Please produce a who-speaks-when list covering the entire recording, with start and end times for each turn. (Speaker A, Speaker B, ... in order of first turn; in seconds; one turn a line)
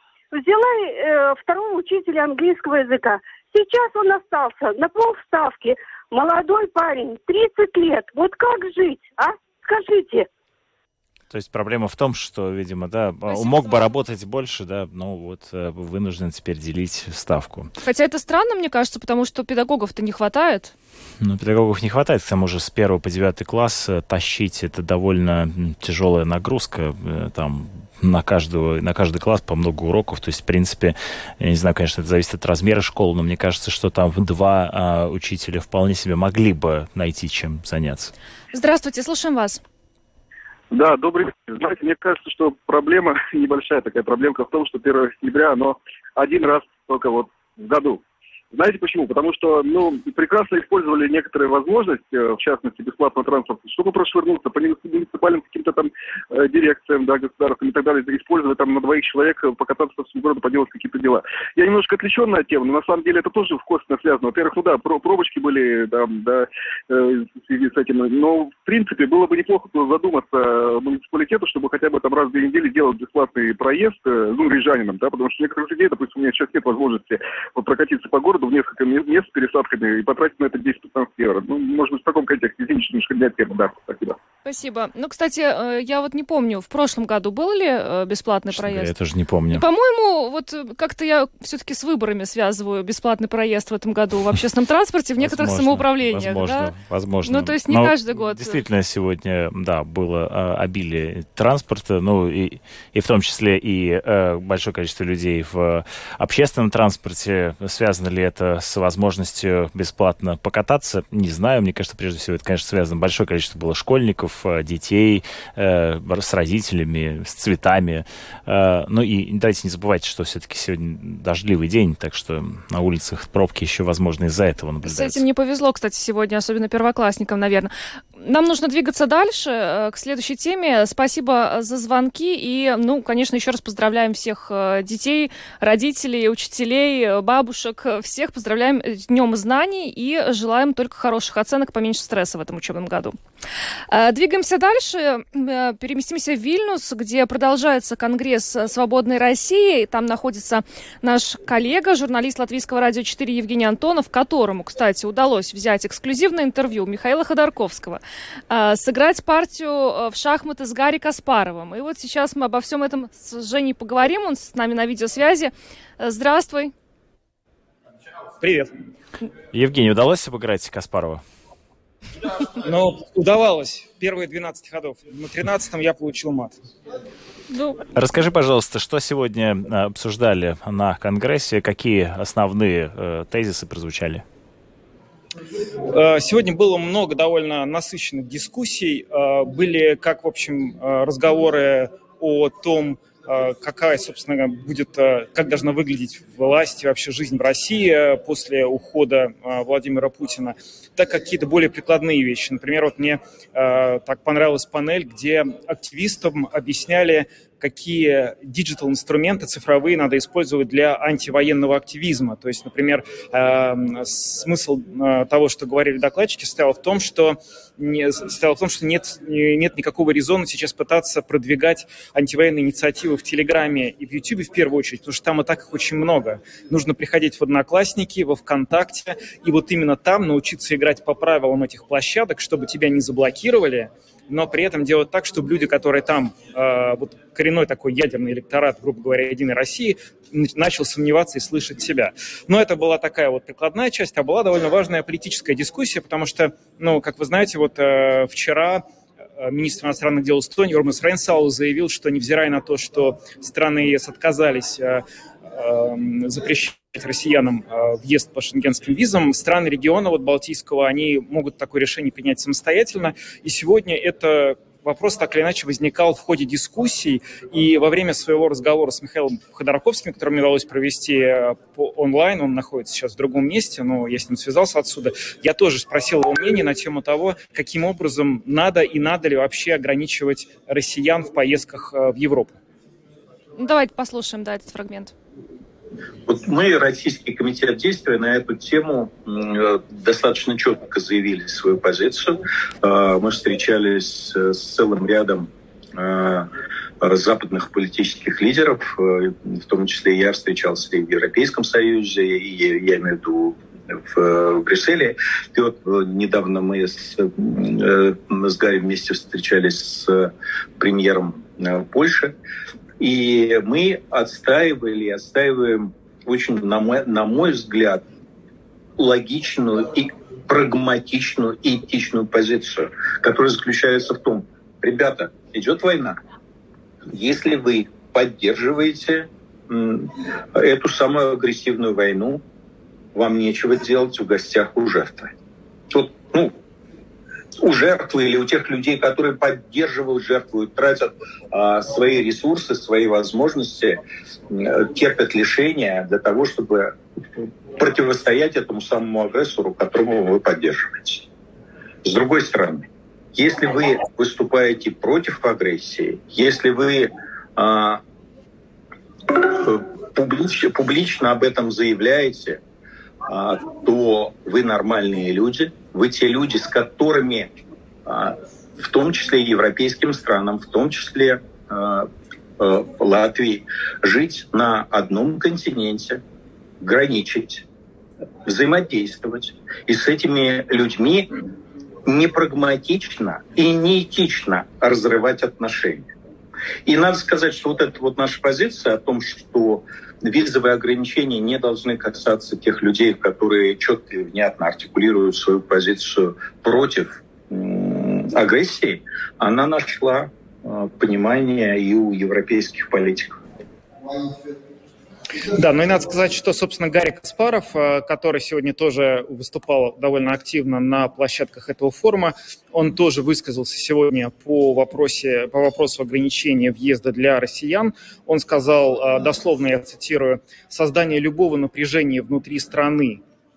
Speaker A: 0.3-10.3
Speaker B: 11.3-17.7
Speaker C: 13.3-13.9
Speaker C: 17.8-20.7
Speaker B: 21.2-38.1
Speaker C: 38.5-39.6
Speaker D: 40.7-48.0
Speaker D: 48.5-84.2
Speaker C: 84.4-88.9
Speaker B: 88.5-89.6
Speaker C: 89.5-96.7
Speaker B: 95.2-125.2
Speaker C: 97.2-98.6
Speaker C: 124.8-143.2
Speaker C: 143.9-166.7
Speaker E: 168.4-168.7
Speaker B: 169.5-171.2
Speaker E: 172.6-176.6
Speaker C: 177.5-177.8
Speaker B: 177.9-184.2
Speaker E: 185.9-248.8
Speaker E: 249.4-282.6
Speaker C: 283.6-285.1
Speaker F: 286.2-296.5
Speaker F: 297.0-312.4
Speaker F: 313.0-318.0
Speaker F: 319.0-326.2
Speaker F: 327.1-332.4
Speaker F: 333.1-335.3
Speaker F: 335.9-336.6
Speaker F: 337.6-351.2
Speaker F: 352.0-358.0
Speaker F: 359.3-362.6
Speaker F: 363.2-376.2
Speaker F: 376.8-377.6
Speaker F: 378.4-381.3
Speaker F: 382.1-386.1
Speaker F: 386.9-403.4
Speaker E: 405.5-423.2